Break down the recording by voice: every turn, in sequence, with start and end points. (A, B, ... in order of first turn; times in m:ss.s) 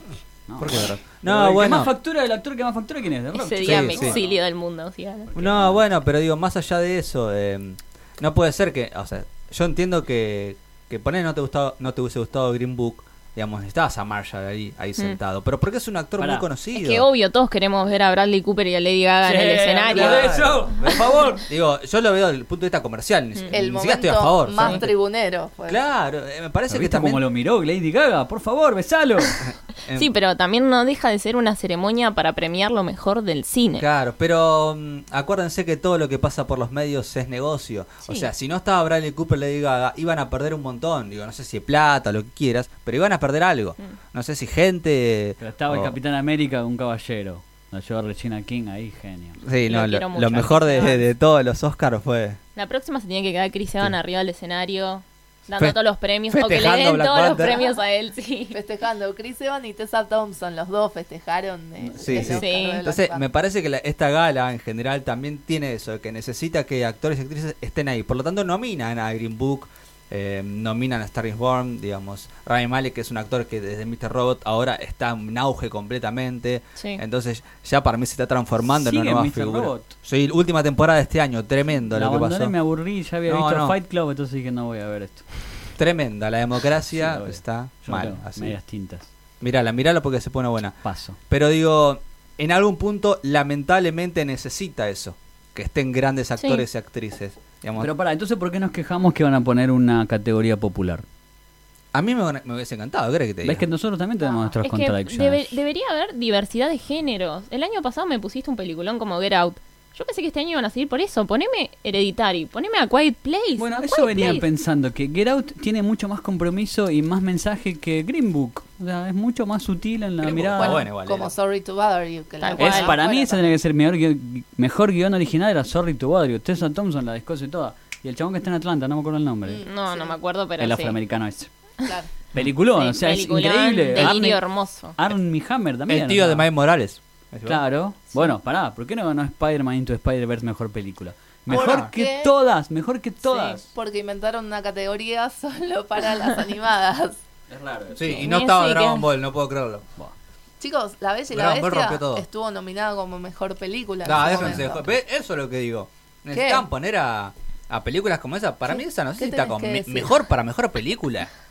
0:00.5-0:04.4 A
0:00.6-0:01.9 B
0:03.4-0:05.3 C
0:03.6-0:04.2 B
0:05.3-0:05.9 A
0:05.4-0:17.1 B
0:16.2-0:16.5 A
0:16.7-0:20.4 C
0:19.2-0:21.4 A
0:19.9-0:24.9 B
0:23.5-0:25.8 D
0:24.6-0:24.8 C
0:25.7-0:27.2 B
0:26.7-0:29.5 A
0:29.4-0:30.1 B
0:29.9-0:33.9 C
0:33.8-0:45.9 B
0:45.4-0:49.4 A
0:49.4-0:52.4 B
0:49.7-0:51.0 C
0:52.6-0:58.6 C
0:56.3-0:57.7 B
0:58.5-1:03.2 D
1:02.0-1:22.6 B
1:02.2-1:02.8 C
1:16.8-1:17.0 C
1:18.6-1:19.9 A
1:21.9-1:25.3 A
1:23.3-1:23.8 B
1:25.8-1:28.6 B
1:26.9-1:29.1 A
1:29.4-1:37.9 B
1:30.8-1:31.2 A
1:36.4-1:36.6 C
1:37.8-1:41.0 A
1:41.9-1:43.6 B
1:43.4-1:45.6 A
1:44.2-1:44.5 D
1:44.6-1:54.5 C
1:53.6-2:00.8 A
2:00.2-2:01.3 B
2:00.6-2:03.6 D
2:02.4-2:03.0 C
2:02.6-2:09.7 A
2:09.5-2:10.2 D
2:09.6-2:11.0 C
2:10.6-2:11.5 A
2:12.4-2:14.4 A
2:12.8-2:15.0 C
2:15.0-2:16.5 A
2:15.9-2:17.6 B
2:17.5-2:23.7 A
2:21.5-2:21.9 B
2:21.5-2:22.3 D
2:23.2-2:23.6 C
2:23.7-2:27.2 D
2:27.5-2:28.3 A
2:28.0-2:29.9 B
2:28.1-2:29.0 C
2:30.6-2:34.9 D
2:31.3-2:32.2 B
2:34.0-2:41.3 B
2:36.3-2:36.6 D
2:38.7-2:40.2 D